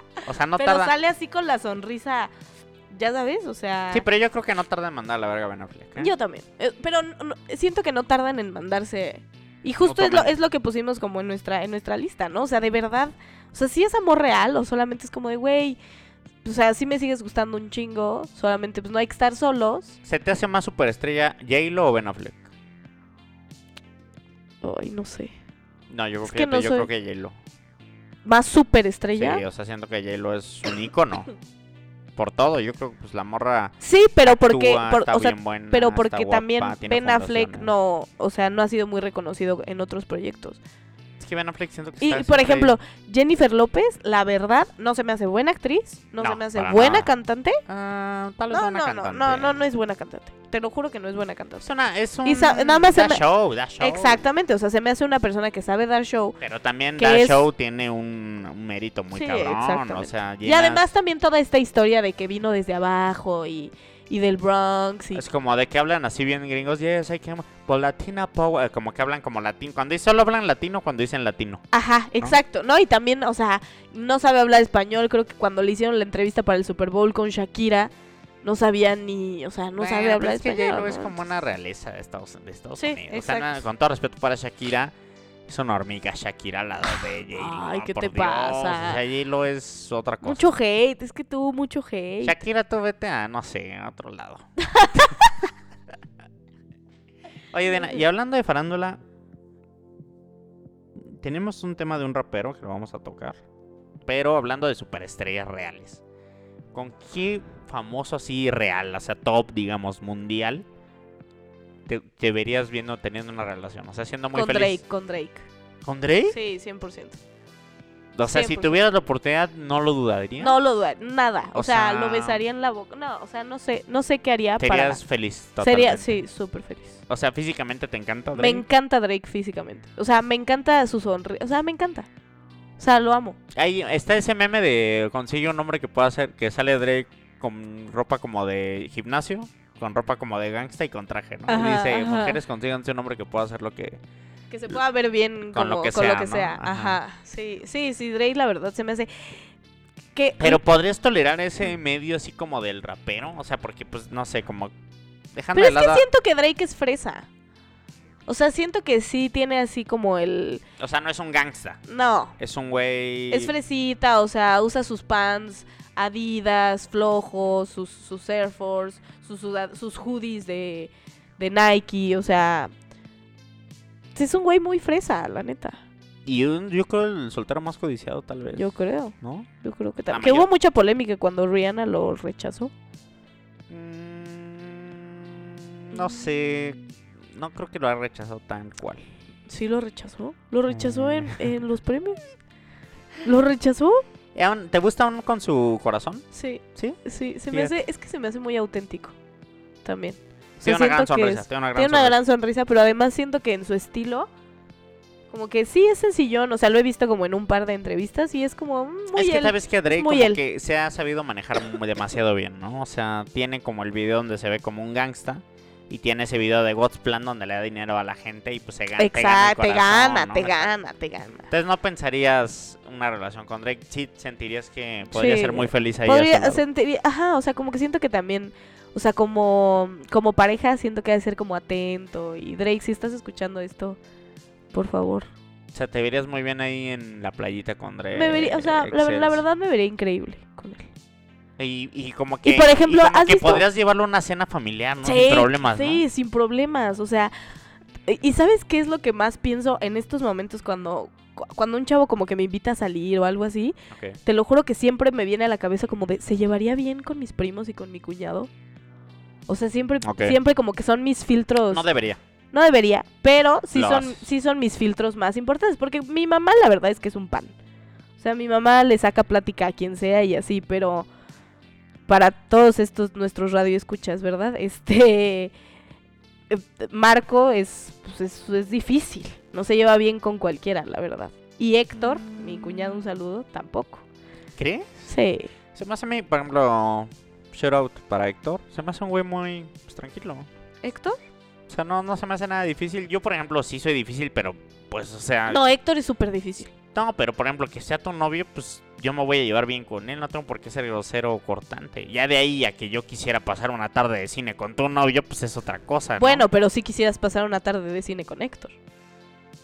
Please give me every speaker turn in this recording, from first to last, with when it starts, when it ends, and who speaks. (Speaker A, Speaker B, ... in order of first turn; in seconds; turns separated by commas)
Speaker A: 0.2-0.9, Speaker B: 0.6-2.3, Speaker B: 2.9-4.0, Speaker A: 3.9-6.1, Speaker B: 6.0-15.8, Speaker A: 9.8-10.3, Speaker B: 16.4-20.0, Speaker A: 20.1-22.5, Speaker B: 24.6-25.3, Speaker A: 25.9-27.4, Speaker B: 26.2-26.9, Speaker B: 28.2-29.4, Speaker A: 29.1-31.3, Speaker A: 32.2-37.7, Speaker B: 33.8-40.6, Speaker A: 41.2-42.8, Speaker B: 42.0-47.6, Speaker A: 46.2-47.1, Speaker A: 47.7-49.5, Speaker B: 48.5-51.7, Speaker A: 51.6-54.2, Speaker B: 52.2-53.2, Speaker B: 53.8-56.4, Speaker A: 56.4-60.8, Speaker B: 57.0-57.5, Speaker B: 59.1-65.2, Speaker A: 65.1-71.6, Speaker B: 71.7-77.9, Speaker B: 78.4-81.1, Speaker A: 79.8-84.9, Speaker B: 82.8-83.6, Speaker A: 85.5-90.5, Speaker B: 87.3-89.0, Speaker B: 90.2-92.4, Speaker A: 92.2-95.1, Speaker B: 94.6-95.2, Speaker A: 97.5-99.0, Speaker A: 101.0-103.4, Speaker A: 104.0-106.0, Speaker A: 106.7-110.7, Speaker A: 111.9-114.8, Speaker B: 114.3-115.5, Speaker A: 115.8-116.4, Speaker B: 116.3-117.2, Speaker A: 118.2-120.6, Speaker B: 118.3-118.8, Speaker B: 120.4-125.0, Speaker A: 121.5-122.4, Speaker A: 124.6-126.2, Speaker B: 125.6-127.0, Speaker A: 127.1-128.6, Speaker B: 128.3-132.1, Speaker B: 132.8-133.4, Speaker A: 133.5-144.0, Speaker B: 141.5-142.4, Speaker B: 144.5-149.4, Speaker A: 145.5-147.0, Speaker B: 150.2-150.6, Speaker A: 150.4-154.7, Speaker A: 155.3-156.1, Speaker B: 155.5-157.3, Speaker B: 158.3-160.6, Speaker A: 160.8-161.8, Speaker B: 161.9-162.3, Speaker A: 162.4-163.5, Speaker B: 163.3-172.7, Speaker B: 174.2-175.8, Speaker A: 176.3-179.5, Speaker B: 178.5-182.7, Speaker A: 180.1-180.5, Speaker A: 183.7-189.0, Speaker B: 189.5-192.2, Speaker A: 190.7-191.4, Speaker B: 193.2-194.0, Speaker A: 194.3-197.8, Speaker B: 196.3-199.2, Speaker B: 199.8-204.3, Speaker A: 200.6-202.2, Speaker B: 205.3-210.4, Speaker A: 209.1-220.7, Speaker B: 219.0-221.5, Speaker A: 221.5-226.6, Speaker B: 225.1-234.0, Speaker B: 234.7-235.3, Speaker A: 235.7-239.4, Speaker B: 238.1-240.9, Speaker A: 241.6-246.0, Speaker B: 242.4-243.7, Speaker B: 245.0-247.3, Speaker B: 248.1-258.5, Speaker A: 253.9-254.2, Speaker B: 259.5-261.9, Speaker A: 260.0-260.4, Speaker A: 261.7-262.2, Speaker B: 262.5-267.6, Speaker A: 263.7-264.2, Speaker B: 268.2-271.1, Speaker B: 272.1-275.5, Speaker B: 276.5-284.0, Speaker A: 281.9-283.0, Speaker A: 284.6-284.9, Speaker B: 285.1-285.5, Speaker A: 285.7-290.5, Speaker B: 290.8-291.2, Speaker A: 291.7-295.6, Speaker B: 295.5-296.7, Speaker A: 296.9-306.4, Speaker B: 306.2-308.8